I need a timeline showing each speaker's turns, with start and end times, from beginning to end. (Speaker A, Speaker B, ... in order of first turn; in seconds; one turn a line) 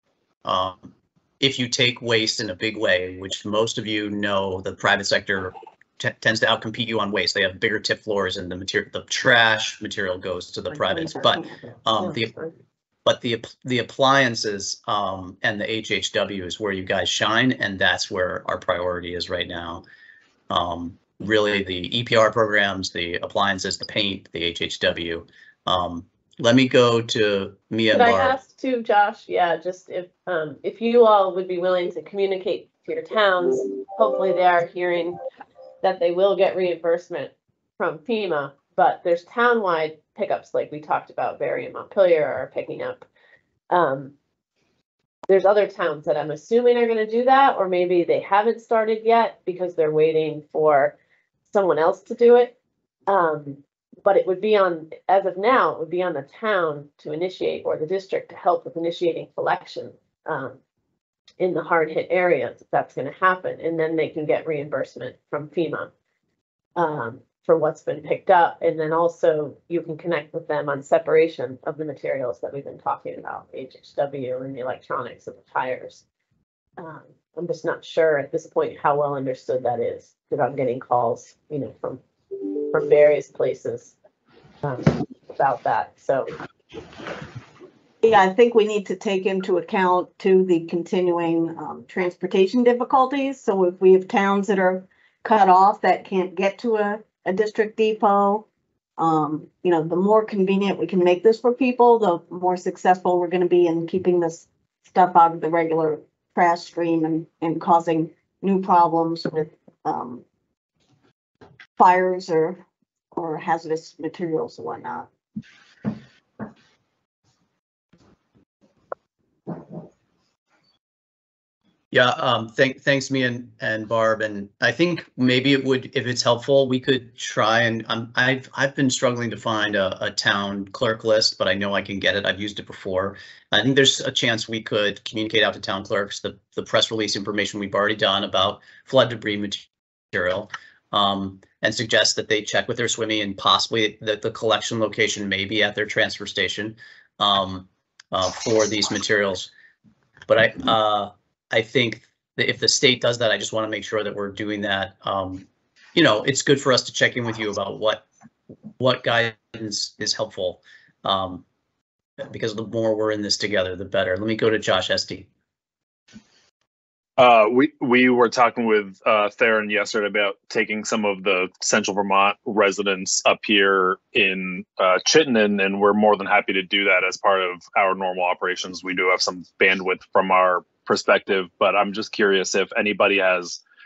Speaker A: 0.4-12.3
Speaker B: 10.7-11.8
Speaker C: 12.0-12.4
Speaker A: 13.0-19.8
Speaker A: 20.5-28.4
Speaker C: 27.9-35.2
Speaker C: 35.8-43.0
Speaker C: 43.7-44.1
Speaker C: 45.3-50.9
Speaker C: 51.5-52.5
Speaker C: 53.1-60.6
Speaker C: 61.4-65.9
Speaker C: 66.8-76.0
Speaker C: 76.8-82.0
Speaker C: 82.7-83.9
Speaker C: 84.6-86.3
Speaker B: 88.0-98.5
Speaker B: 99.0-110.2
Speaker B: 111.8-112.6
Speaker B: 113.1-115.1
Speaker A: 121.9-149.5
Speaker A: 150.3-158.1
Speaker A: 158.8-161.4
Speaker A: 162.3-165.3
Speaker D: 167.2-183.6